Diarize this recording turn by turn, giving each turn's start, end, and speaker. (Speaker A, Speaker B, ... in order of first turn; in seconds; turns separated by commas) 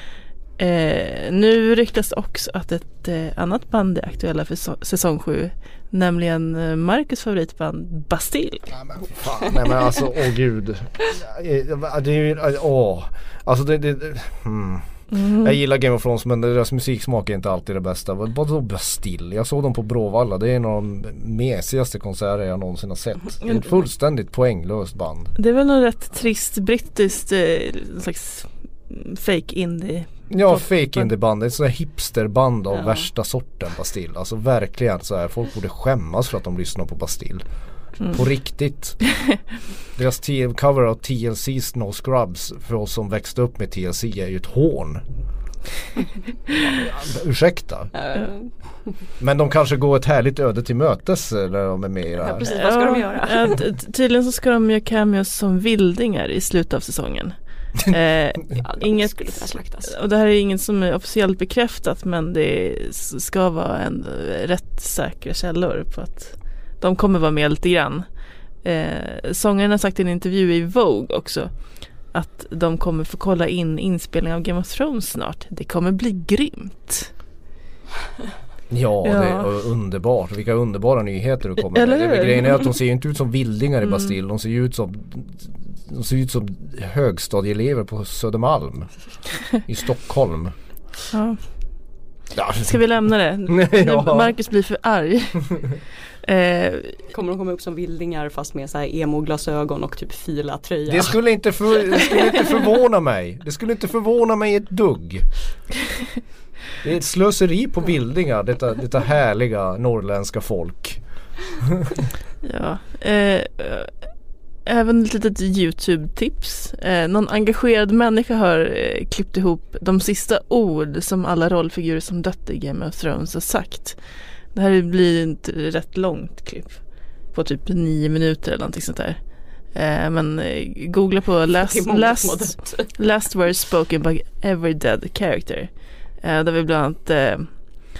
Speaker A: 0.6-8.7, Speaker B: 8.7-25.3, Speaker A: 15.1-15.5, Speaker A: 23.4-23.8, Speaker A: 25.4-31.1, Speaker B: 30.3-37.4, Speaker B: 38.1-39.0, Speaker B: 40.0-45.0, Speaker B: 46.6-47.9, Speaker C: 47.9-48.9, Speaker B: 49.2-52.5, Speaker C: 52.2-53.5, Speaker A: 52.4-68.0, Speaker C: 58.5-59.9, Speaker A: 68.6-71.5, Speaker A: 72.1-77.1, Speaker B: 78.7-88.9, Speaker A: 79.0-79.5, Speaker A: 81.7-82.7, Speaker B: 89.5-90.5, Speaker A: 91.1-91.4, Speaker B: 92.3-92.8, Speaker A: 92.7-97.0, Speaker B: 93.5-94.3, Speaker C: 97.1-101.2, Speaker B: 100.9-105.2, Speaker B: 106.8-111.0, Speaker B: 111.6-111.9, Speaker A: 112.4-113.9, Speaker A: 114.6-124.0, Speaker A: 124.5-126.8, Speaker A: 127.3-129.2, Speaker A: 129.7-137.6, Speaker C: 131.6-132.9